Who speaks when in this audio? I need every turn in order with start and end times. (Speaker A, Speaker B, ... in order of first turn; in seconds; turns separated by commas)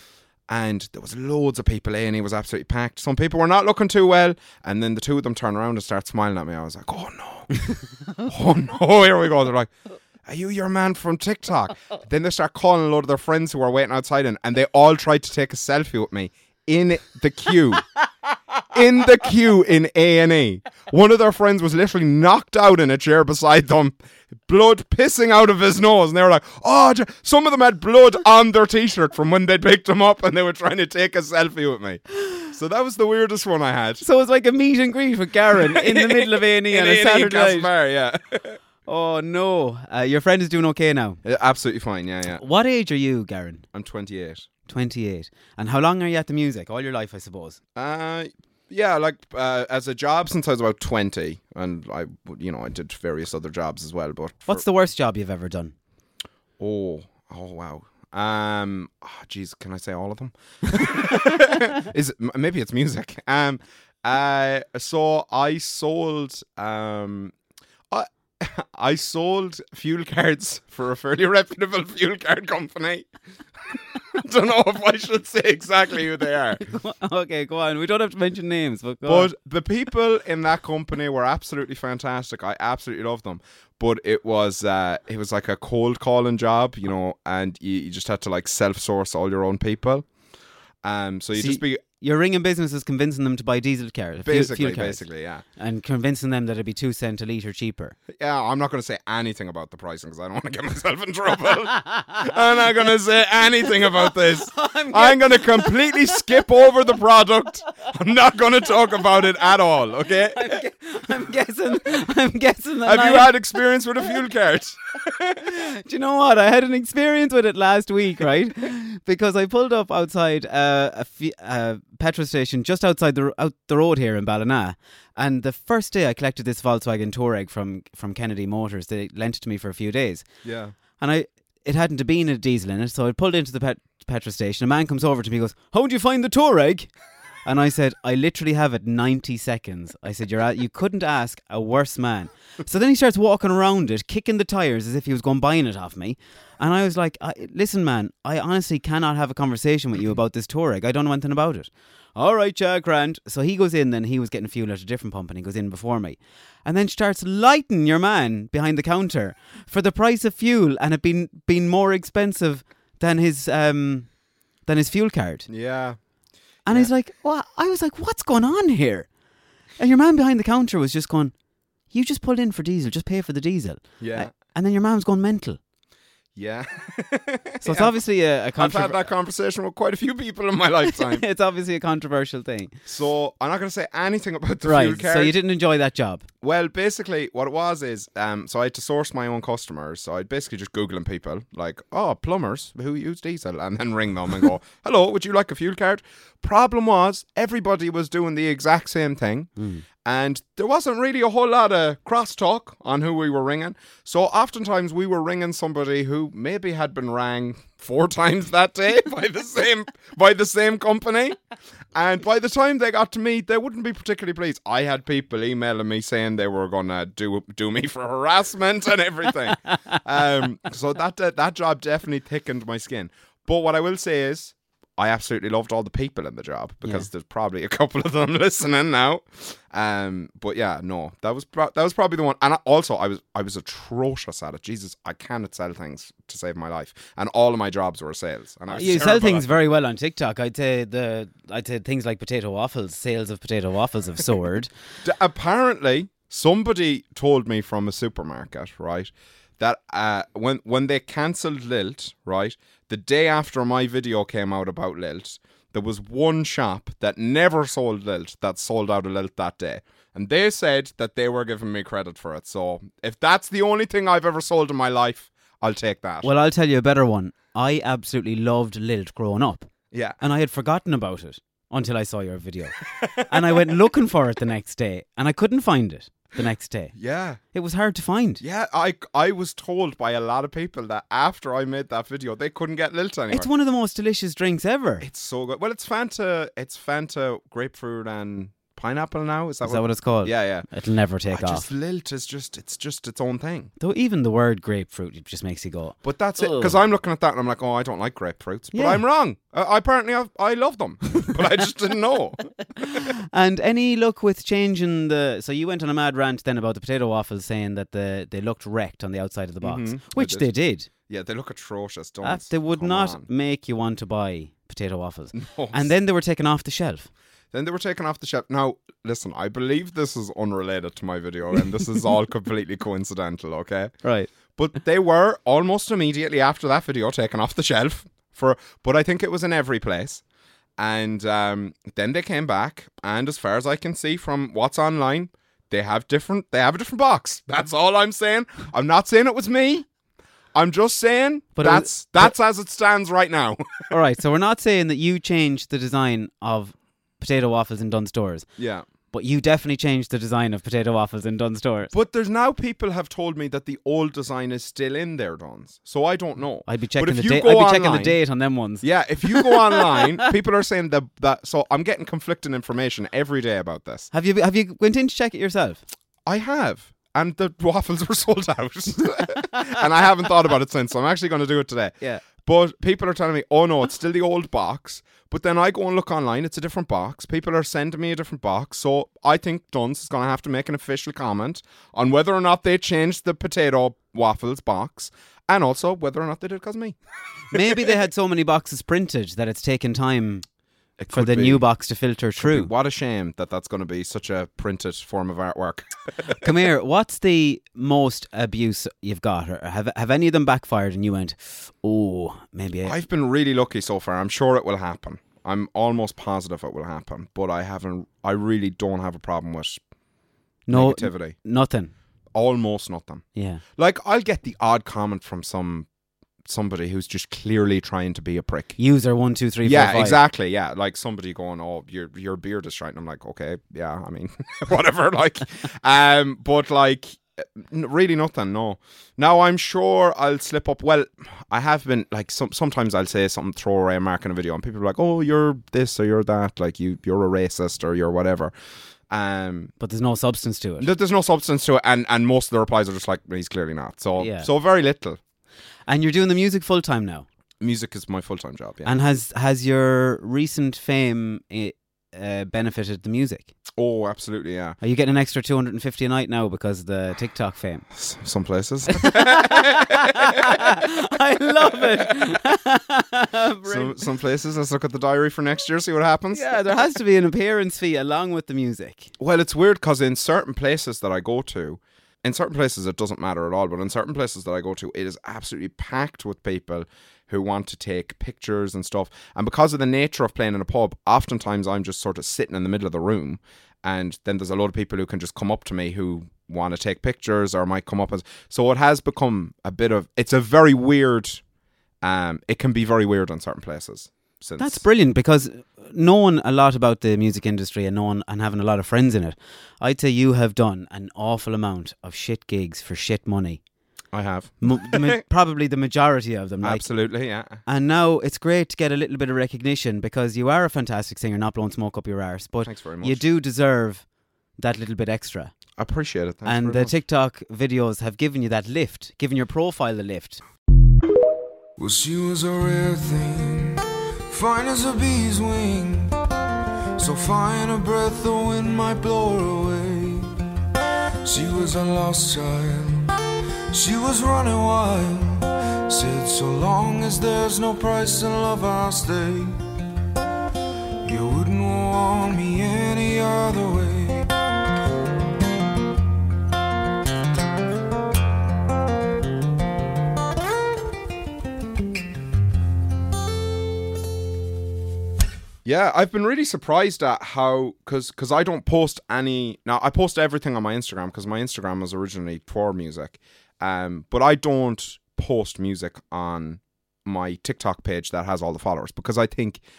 Speaker A: 0.5-7.7, Speaker A: 8.2-9.7, Speaker A: 10.3-17.9, Speaker A: 18.7-23.9, Speaker A: 24.5-34.0, Speaker B: 34.0-37.7, Speaker A: 35.5-38.6, Speaker B: 38.9-41.2, Speaker A: 41.2-42.4, Speaker B: 42.3-43.6, Speaker A: 43.7-44.5, Speaker B: 44.7-47.6, Speaker A: 47.8-54.6, Speaker B: 54.5-55.7, Speaker A: 56.6-67.3, Speaker A: 67.9-73.1, Speaker A: 74.1-76.6, Speaker B: 76.6-79.3, Speaker A: 79.1-90.1, Speaker A: 90.8-91.8, Speaker B: 91.4-95.0, Speaker A: 94.2-95.4, Speaker B: 95.6-98.0, Speaker A: 98.1-110.6, Speaker B: 104.5-106.0, Speaker B: 110.3-113.4, Speaker A: 112.8-115.5, Speaker B: 115.4-130.3, Speaker A: 130.4-130.8, Speaker B: 131.0-136.9, Speaker B: 137.4-164.1, Speaker B: 164.7-165.5, Speaker A: 165.5-166.0, Speaker A: 166.7-166.9, Speaker B: 166.7-169.1, Speaker B: 169.8-171.3, Speaker B: 171.9-175.6, Speaker A: 174.0-174.3, Speaker A: 176.4-177.9, Speaker B: 177.6-179.1, Speaker A: 178.6-181.2, Speaker B: 180.8-182.8, Speaker A: 182.9-185.4, Speaker B: 184.6-186.3, Speaker A: 186.4-211.4, Speaker B: 199.6-199.8, Speaker A: 211.9-239.6, Speaker B: 238.7-244.7, Speaker A: 245.0-266.3, Speaker B: 266.2-276.9, Speaker A: 269.9-270.2, Speaker A: 273.0-273.4, Speaker A: 276.9-277.4, Speaker B: 277.5-278.4, Speaker A: 278.4-283.5, Speaker B: 283.3-285.1, Speaker A: 285.0-290.7, Speaker B: 289.6-291.7, Speaker A: 291.3-293.7, Speaker B: 293.8-296.8, Speaker A: 296.0-302.4, Speaker B: 298.7-299.0, Speaker B: 302.8-310.9, Speaker A: 309.6-310.5, Speaker A: 311.1-313.3, Speaker B: 312.2-317.1, Speaker A: 315.3-315.9, Speaker A: 317.5-323.9, Speaker B: 324.0-324.3, Speaker A: 324.6-330.2, Speaker A: 330.8-339.9, Speaker A: 340.6-343.9, Speaker B: 341.6-342.3, Speaker B: 343.9-348.5, Speaker A: 348.6-348.9, Speaker B: 349.1-351.9, Speaker A: 351.9-358.2, Speaker B: 356.7-360.3, Speaker A: 358.8-364.1, Speaker B: 364.1-365.8, Speaker A: 366.2-387.0, Speaker B: 387.5-390.4, Speaker A: 387.5-387.9, Speaker A: 391.0-391.6, Speaker B: 391.1-392.7, Speaker A: 392.4-395.9, Speaker B: 396.4-403.0, Speaker A: 402.8-409.8, Speaker B: 410.7-411.9, Speaker A: 410.7-411.4, Speaker A: 412.3-413.2, Speaker B: 413.4-413.6, Speaker A: 413.8-415.9, Speaker A: 416.4-418.8, Speaker B: 418.8-420.2, Speaker A: 419.6-438.5, Speaker A: 439.1-439.7, Speaker B: 439.8-440.9, Speaker A: 440.8-445.2, Speaker B: 444.2-444.5, Speaker B: 445.9-447.3, Speaker A: 447.6-449.0, Speaker B: 448.9-453.5, Speaker A: 453.8-454.8, Speaker B: 454.8-457.9, Speaker A: 457.9-460.8, Speaker B: 458.9-464.0, Speaker A: 461.7-462.0, Speaker A: 463.7-466.6, Speaker B: 466.3-469.1, Speaker A: 469.2-491.4, Speaker A: 492.0-494.8, Speaker B: 494.6-503.6, Speaker A: 504.1-505.2, Speaker B: 504.6-506.9, Speaker A: 506.6-507.6, Speaker B: 507.7-514.0, Speaker A: 512.6-513.2, Speaker B: 514.6-515.5, Speaker A: 515.8-517.0, Speaker B: 516.5-520.4, Speaker C: 521.8-526.2, Speaker C: 527.0-530.3, Speaker C: 531.2-533.1, Speaker C: 533.7-539.6, Speaker C: 541.0-544.3, Speaker A: 555.6-569.6